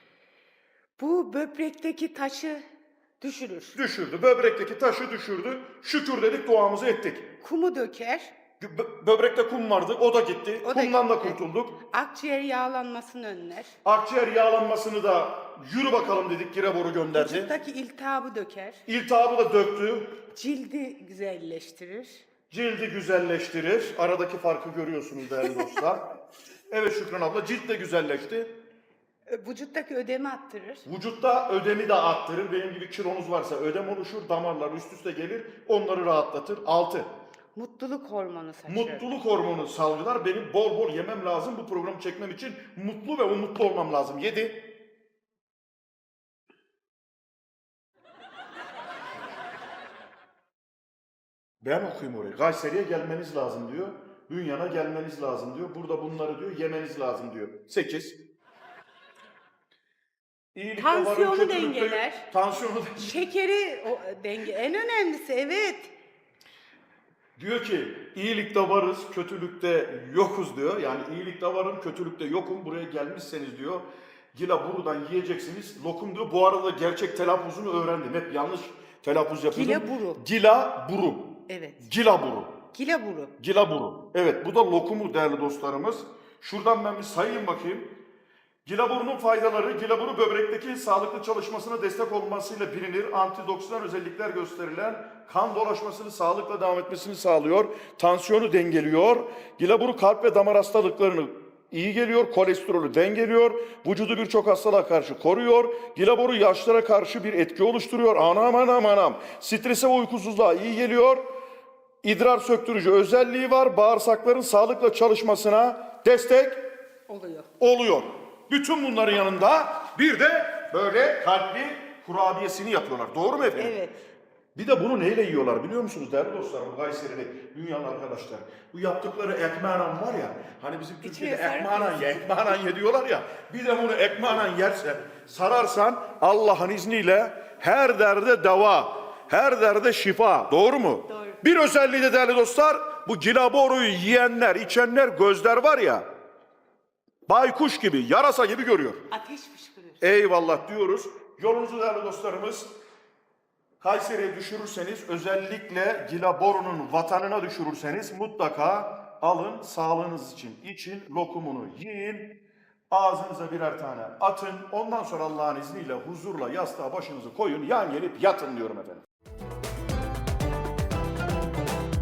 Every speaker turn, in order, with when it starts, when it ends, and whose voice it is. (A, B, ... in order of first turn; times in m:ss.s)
0:01.0-0:02.6 A
0:03.2-0:03.8 A
0:03.7-0:07.3 B
0:07.4-0:08.3 A
0:08.6-0:11.8 B
0:10.6-0:13.7 A
0:13.8-0:17.5 B
0:17.1-0:18.8 A
0:18.9-0:20.2 B
0:20.3-0:22.2 A
0:22.5-0:26.1 B
0:26.7-0:28.5 B
0:29.3-0:30.8 A
0:30.8-0:37.1 B
0:37.5-0:39.2 A
0:38.7-0:44.7 B
0:51.6-0:58.2 B
1:00.5-1:03.2 B
1:00.8-1:02.3 A
1:03.0-1:05.9 A
1:07.4-1:22.6 B
1:19.5-1:20.2 A
1:21.5-1:21.8 A
1:22.7-1:23.3 A
1:23.4-1:28.0 B
1:28.6-1:51.2 B
1:52.0-1:56.6 B
1:57.1-1:57.5 A
1:57.6-2:03.8 B
2:03.6-2:04.0 A
2:04.5-2:26.1 B
2:11.0-2:12.4 A
2:27.3-2:29.1 B
2:29.1-2:30.0 A
2:30.0-2:32.7 B
2:33.8-2:42.4 B
2:42.9-2:49.0 B